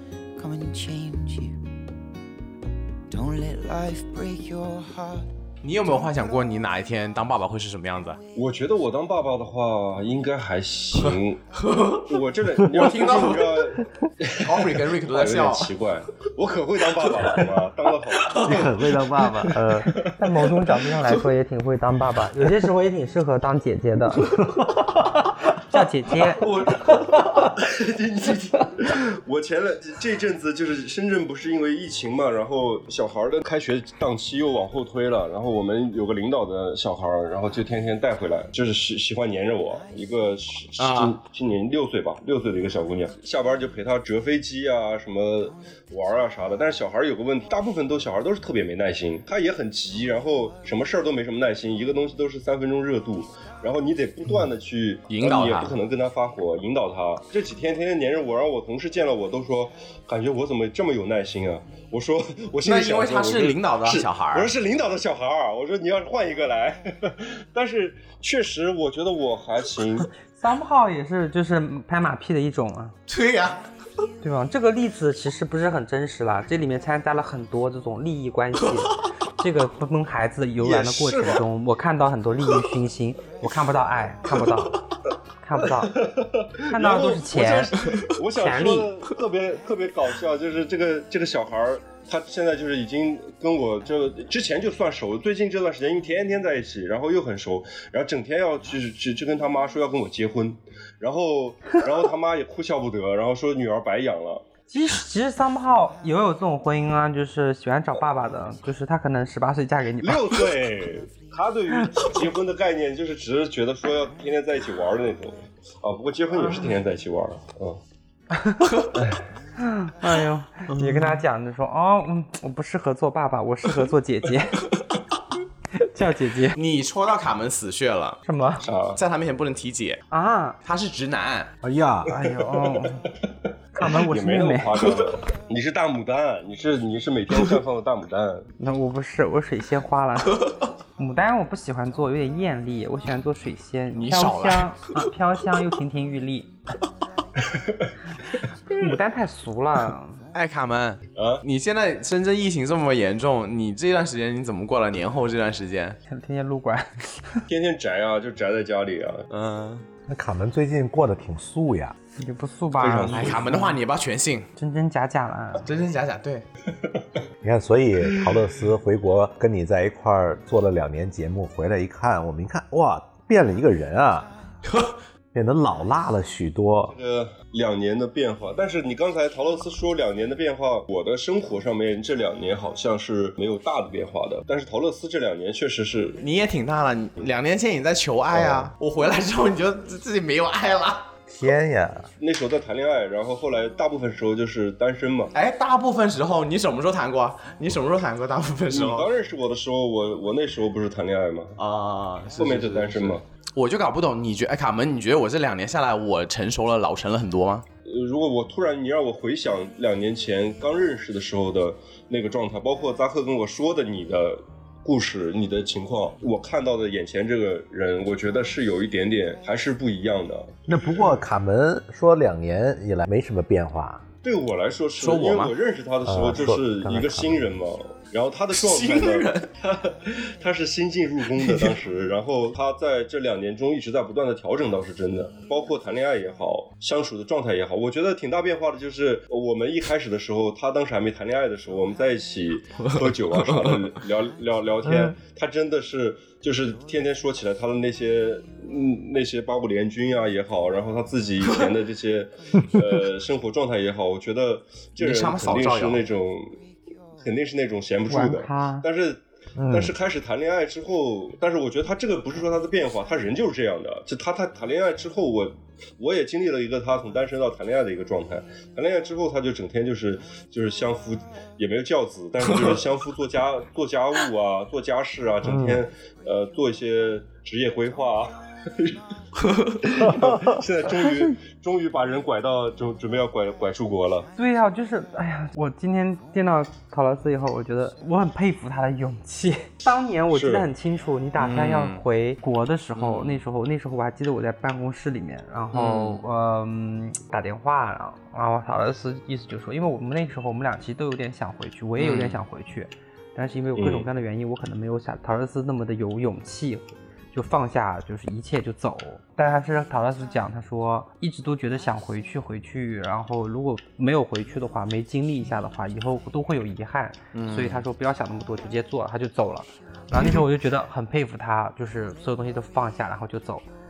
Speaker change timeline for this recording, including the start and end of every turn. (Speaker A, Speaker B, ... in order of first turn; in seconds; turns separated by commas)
Speaker A: 0.3-1.6, Speaker A: 3.1-5.3, Speaker B: 5.6-8.2, Speaker C: 8.3-18.8, Speaker B: 11.0-12.1, Speaker B: 12.6-13.6, Speaker B: 14.4-15.7, Speaker B: 18.2-18.6, Speaker D: 18.4-20.1, Speaker C: 19.5-20.1, Speaker E: 19.9-24.3, Speaker E: 25.5-26.5, Speaker C: 26.4-70.1, Speaker B: 40.8-41.2, Speaker B: 55.1-55.8, Speaker B: 62.6-64.5, Speaker E: 70.4-72.9, Speaker B: 73.1-73.6, Speaker E: 74.2-84.8, Speaker C: 80.6-81.4, Speaker E: 85.4-86.0, Speaker C: 85.8-104.4, Speaker E: 86.6-87.7, Speaker E: 88.3-88.9, Speaker E: 104.7-110.4, Speaker C: 110.0-117.8, Speaker E: 111.8-112.0, Speaker E: 116.4-116.7, Speaker E: 118.3-118.9, Speaker E: 119.6-124.7, Speaker B: 120.8-121.1, Speaker E: 125.7-126.6, Speaker B: 126.5-128.2, Speaker E: 128.2-128.6, Speaker C: 128.6-129.0, Speaker B: 128.9-130.0, Speaker E: 130.1-130.6, Speaker B: 130.6-131.5, Speaker D: 131.6-132.2, Speaker E: 132.1-133.1, Speaker E: 133.7-134.9, Speaker C: 133.9-138.5, Speaker E: 138.6-146.5, Speaker B: 143.9-144.8, Speaker C: 147.5-147.9, Speaker E: 148.7-150.2, Speaker B: 150.3-156.0, Speaker C: 151.2-151.4, Speaker E: 156.1-157.4, Speaker C: 157.5-159.3, Speaker B: 159.3-159.8, Speaker D: 160.1-161.9, Speaker E: 162.2-163.8, Speaker C: 162.8-163.6, Speaker B: 163.1-164.5, Speaker E: 164.6-165.7, Speaker B: 165.6-166.4, Speaker D: 167.4-174.3, Speaker D: 175.3-176.9, Speaker C: 176.9-186.2, Speaker B: 186.2-191.1, Speaker D: 188.3-188.7, Speaker D: 191.3-192.1, Speaker C: 192.2-195.3, Speaker B: 195.3-199.1, Speaker C: 198.7-201.6, Speaker B: 201.6-207.6, Speaker C: 202.3-203.2, Speaker C: 207.8-221.1, Speaker D: 220.7-224.0, Speaker C: 224.2-256.6, Speaker B: 225.0-225.5, Speaker D: 226.1-227.5, Speaker B: 228.5-229.5, Speaker B: 231.4-231.7, Speaker B: 242.8-243.8, Speaker D: 244.8-245.2, Speaker B: 255.0-256.0, Speaker C: 257.2-279.0, Speaker E: 258.1-258.9, Speaker D: 259.6-259.9, Speaker D: 275.4-275.9, Speaker B: 279.5-279.8, Speaker C: 279.8-284.3, Speaker D: 280.0-280.6, Speaker E: 280.9-281.4, Speaker E: 284.4-323.6, Speaker C: 290.3-290.7, Speaker B: 291.4-292.0, Speaker B: 292.9-293.4, Speaker B: 295.7-296.2, Speaker B: 302.0-302.4, Speaker C: 303.8-304.0, Speaker B: 317.3-317.8